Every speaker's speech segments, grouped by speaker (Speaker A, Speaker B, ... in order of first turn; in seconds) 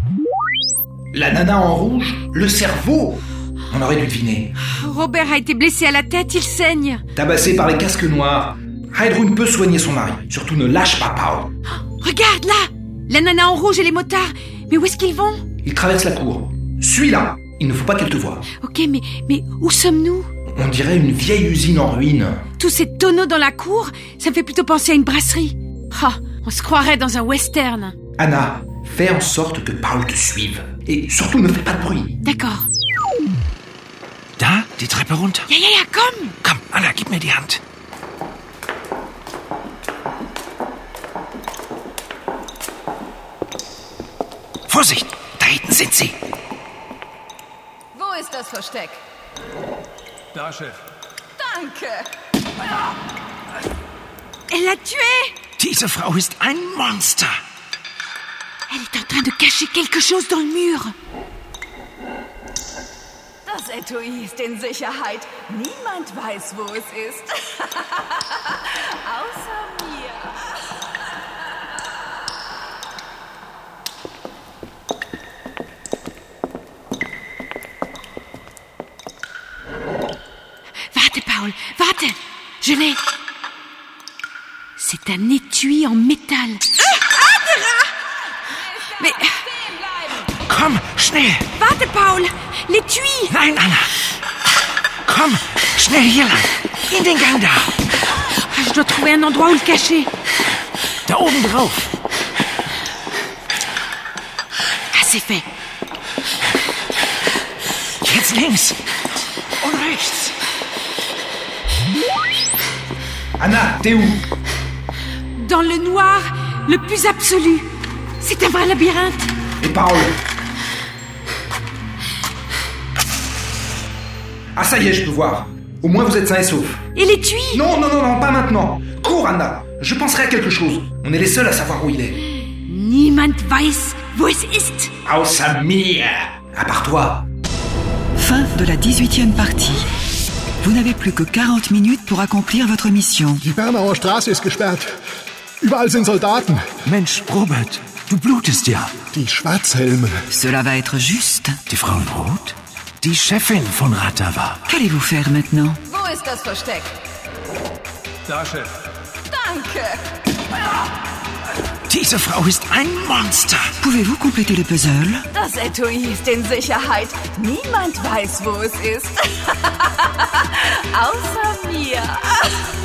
Speaker A: 1.1-4.5, 7.1-11.5, 15.6-18.4, 20.5-22.4, 28.2-32.2, 113.4-114.2, 119.6-120.2, 124.6-126.8, 127.5-132.2, 135.1-137.3
Speaker B: 4.6-7.0, 11.9-15.4, 18.6-20.3, 22.6-27.9, 32.2-32.7, 35.5-36.4, 54.5-55.4, 58.7-60.9, 80.9-83.0, 84.8-87.8, 89.0-89.5, 91.6-93.4, 98.3-100.1, 104.9-105.5, 115.4-117.7, 118.2-119.3, 127.0-127.7, 132.7-134.9
Speaker C: 34.4-35.5, 36.4-37.6, 44.7-46.2, 55.6-57.3, 90.4-91.5, 93.3-93.9, 95.1-97.7, 101.1-101.9, 108.0-108.8, 109.6-110.3, 146.9-149.0, 151.7-154.6, 161.9-163.8
Speaker D: 47.9-49.0, 51.4-52.1, 63.5-70.6, 155.9-156.9, 159.3-160.1, 165.3-172.7
Speaker E: 138.2-139.9, 140.6-143.4, 150.3-151.6, 154.7-155.8, 163.8-165.3
Speaker F: 143.4-144.9, 145.6-146.7, 149.1-150.2